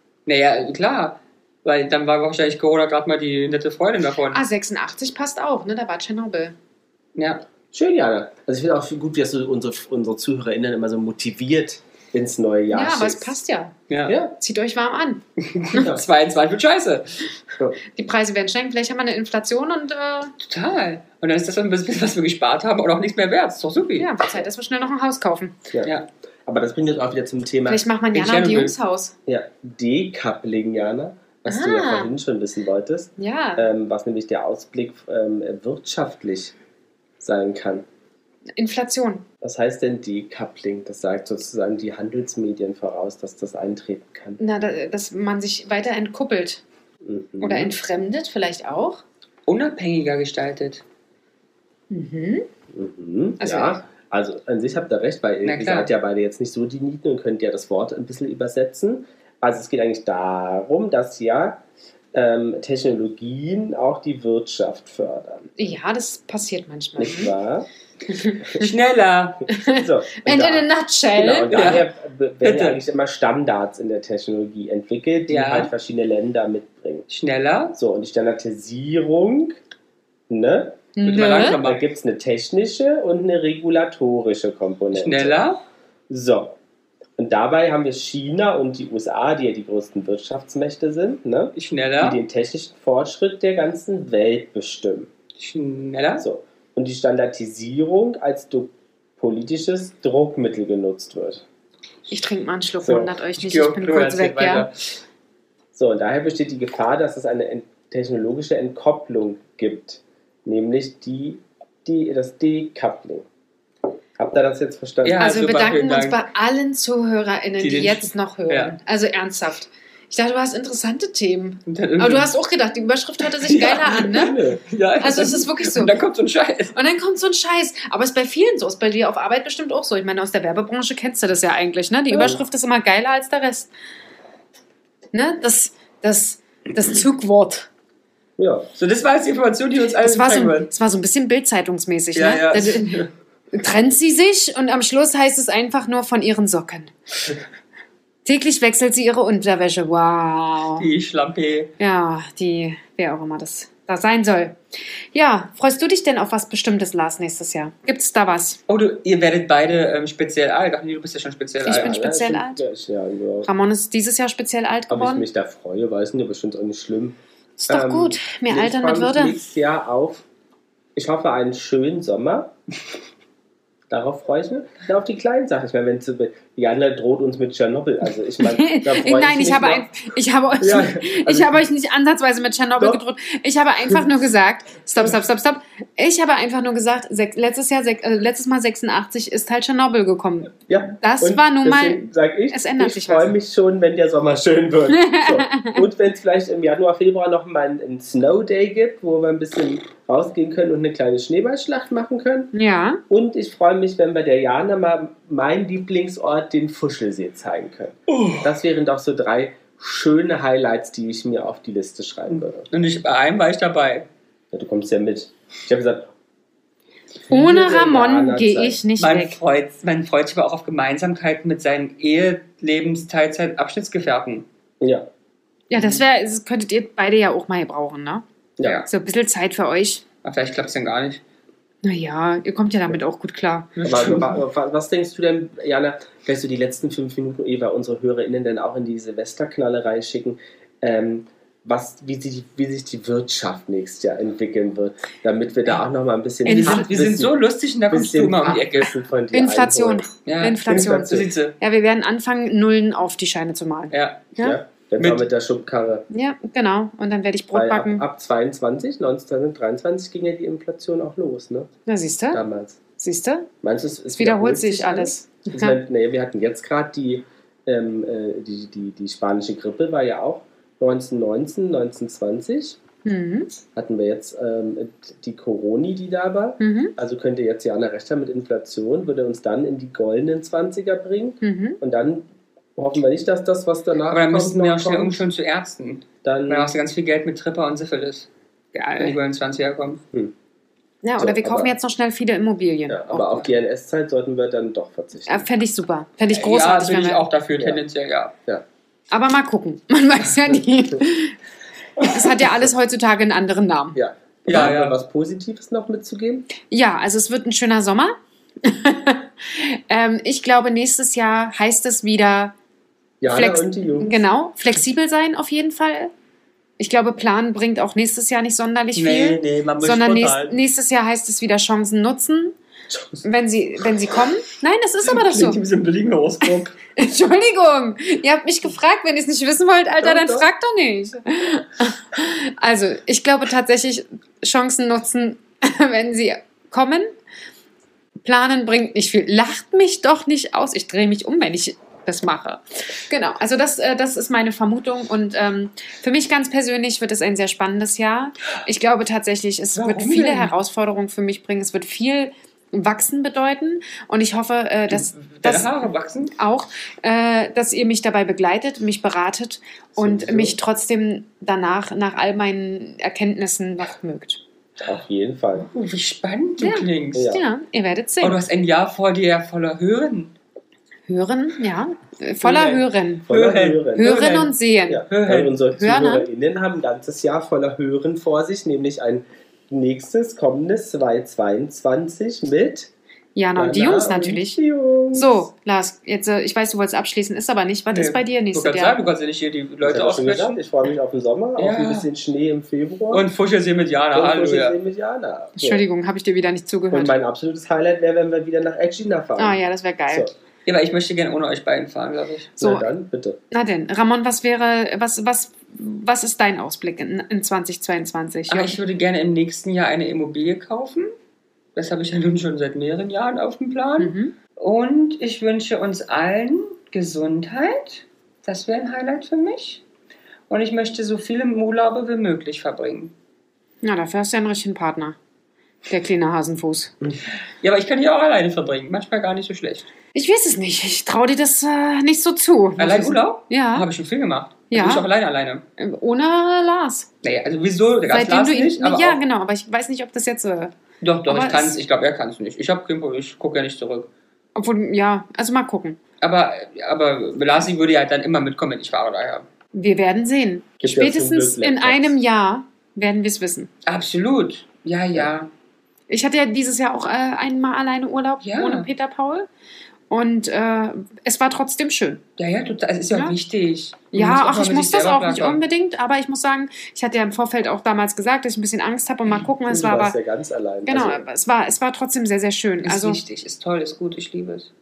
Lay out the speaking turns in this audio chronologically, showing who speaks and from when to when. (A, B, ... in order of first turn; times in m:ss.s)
0:00.3-0:04.4 A
0:04.3-0:06.6 B
0:07.2-0:07.4 A
0:07.7-0:13.4 C
0:12.7-0:13.8 B
0:13.9-0:14.2 A
0:14.1-0:14.3 C
0:14.4-0:15.8 B
0:15.4-0:17.2 A
0:15.7-0:16.0 C
0:18.0-0:20.3 B
0:20.4-0:24.1 A
0:24.0-0:25.6 B
0:26.5-0:27.8 C
0:27.7-0:29.1 B
0:28.1-0:28.8 A
0:29.3-0:36.5 C
0:31.5-0:32.1 B
0:33.2-0:33.7 B
0:37.2-0:37.9 C
0:38.6-0:39.3 B
0:39.4-0:44.4 C
0:44.4-0:46.6 B
0:47.0-0:47.7 C
0:47.4-0:49.0 B
0:49.5-0:50.8 A
0:51.9-0:52.5 B
0:52.7-1:01.6 C
0:53.4-0:53.8 B
0:55.4-0:55.9 A
1:02.1-1:05.6 C
1:05.6-1:07.4 B
1:07.0-1:07.7 C
1:08.1-1:08.7 B
1:08.6-1:09.5 A
1:09.5-1:17.1 C
1:09.5-1:11.8 B
1:11.5-1:11.9 A
1:12.4-1:12.8 A
1:15.3-1:15.7 A
1:17.1-1:17.8 A
1:17.8-1:19.6 C
1:20.3-1:20.9 C
1:21.0-1:21.6 B
1:21.0-1:21.8 A
1:21.4-1:25.4 C
1:24.9-1:25.6 A
1:26.1-1:26.6 C
1:27.2-1:35.1 C
1:31.6-1:32.2 A
1:35.4-1:36.2 A
1:36.2-1:41.4 C
1:42.1-1:44.7 B
1:42.8-1:43.2 C
1:43.4-1:45.0 A
1:45.7-1:53.3 C
1:54.2-1:55.3 C
1:55.0-1:56.2 A
1:55.2-2:04.4 B
1:57.6-1:58.8 A
2:01.7-2:02.3 A
2:03.2-2:06.8 A
2:04.1-2:04.6 C
2:05.0-2:06.0 B
2:06.8-2:13.7 B
2:12.1-2:12.4 C
2:15.1-2:17.7 B
2:18.4-2:18.7 C
2:18.8-2:20.7 A
2:20.0-2:23.0 B
2:22.1-2:23.1 A
2:23.5-2:26.9 B
2:28.2-2:30.9 B
2:30.8-2:31.7 A
2:31.8-2:34.6 B
2:35.1-2:38.6 B
2:38.7-2:42.0 A
2:41.6-2:42.6 B
2:41.6-2:43.5 C
2:43.4-2:45.3 B
2:44.9-2:47.2 C
2:47.6-2:49.4 B
2:47.7-2:50.2 C
2:51.0-2:52.5 C
2:53.9-3:00.0 C
2:58.4-3:13.4 B
3:00.6-3:01.6 C
3:10.7-3:22.5 C
3:15.0-3:15.8 B
3:22.5-3:23.0 B
3:23.1-3:32.7 C
3:28.1-3:28.4 A
3:32.3-3:34.1 A
3:34.5-3:36.1 C
3:37.3-3:38.8 C
3:37.3-3:39.4 B
3:39.0-3:44.5 A
3:44.8-3:45.1 C
3:45.7-3:48.2 B
3:45.7-3:46.0 A
3:48.6-3:48.8 C
3:48.9-3:50.0 B
3:50.2-3:51.2 A
3:51.8-3:53.8 B
3:53.8-3:54.4 A
3:53.8-4:07.4 C
4:06.5-4:06.9 B
4:06.5-4:08.9 A
4:07.9-4:10.1 C
4:09.3-4:14.6 B
4:10.2-4:11.6 A
4:10.7-4:11.3 C
4:13.9-4:14.4 A
4:14.4-4:16.1 C
4:15.0-4:15.3 A
4:16.1-4:18.0 B
4:17.5-4:21.7 C
4:21.9-4:22.4 B
4:22.3-4:22.8 C
4:23.0-4:23.5 B
4:23.6-4:32.8 C
4:24.2-4:25.8 B
4:33.0-4:33.6 B
4:33.8-4:45.2 C
4:36.6-4:36.9 B
4:41.4-4:41.8 B
4:44.1-4:48.3 A
4:46.2-4:46.7 C
4:48.8-4:49.2 B
4:48.9-4:50.0 A
4:51.0-4:53.4 B
4:51.2-4:51.7 C
4:52.9-4:55.5 C
4:55.3-4:57.3 B
4:56.3-4:58.3 A
4:59.1-5:01.4 B
5:02.0-5:04.0 B
5:04.0-5:06.5 C
5:04.5-5:05.0 A
5:06.6-5:12.6 B
5:13.2-5:14.2 C
5:13.3-5:16.1 B
5:16.8-5:22.6 B
5:19.0-5:20.6 A
5:22.9-5:23.3 C
5:23.2-5:25.6 B
5:25.0-5:26.8 A
5:26.4-5:37.2 B
5:30.0-5:30.5 C
5:38.2-6:04.4 B
5:49.8-5:50.5 A
5:54.9-5:56.3 A
6:00.0-6:00.6 C
6:04.8-6:05.7 C
6:05.6-6:07.3 A
6:06.6-6:08.4 B
6:07.1-6:07.4 C
6:08.2-6:10.3 A
6:11.1-6:13.3 B
6:12.4-6:14.5 A
6:13.3-6:14.2 C
6:14.0-6:15.1 B
6:14.9-6:22.9 C
6:15.1-6:15.5 A
6:15.7-6:16.3 B
6:23.4-6:24.6 B
6:23.6-6:25.5 C
6:25.2-6:29.0 B
6:27.9-6:30.6 A
6:29.8-6:33.3 C
6:31.6-6:32.1 A
6:33.1-6:34.8 A
6:34.1-6:35.8 C
6:35.6-6:37.2 B
6:36.9-6:40.3 C
6:39.4-6:40.3 B
6:40.7-6:42.5 A
6:42.6-6:43.4 C
6:42.6-6:42.9 B
6:43.5-6:48.8 B
6:48.5-6:51.1 A
6:51.8-6:59.8 A
6:54.0-6:54.3 B
7:00.5-7:03.1 A
7:03.8-7:05.2 B
7:05.9-7:07.0 B
7:07.6-7:09.9 A
7:10.1-7:13.9 B
7:12.8-7:15.6 A
7:14.7-7:15.0 B
7:15.8-7:17.1 B
7:17.2-7:19.2 A
7:18.1-7:20.7 B
7:21.0-7:24.1 A
7:21.3-7:21.8 B
7:24.6-7:26.0 B
7:26.2-7:29.5 A
7:29.7-7:33.7 B
7:30.8-7:32.1 C
7:33.9-7:35.5 A
7:36.1-7:39.5 B
7:38.4-7:38.9 A
7:40.1-7:42.2 B
7:42.4-7:45.6 A
7:44.1-7:50.2 B
7:49.7-7:51.3 C
7:50.9-7:53.2 B
7:52.8-7:54.7 A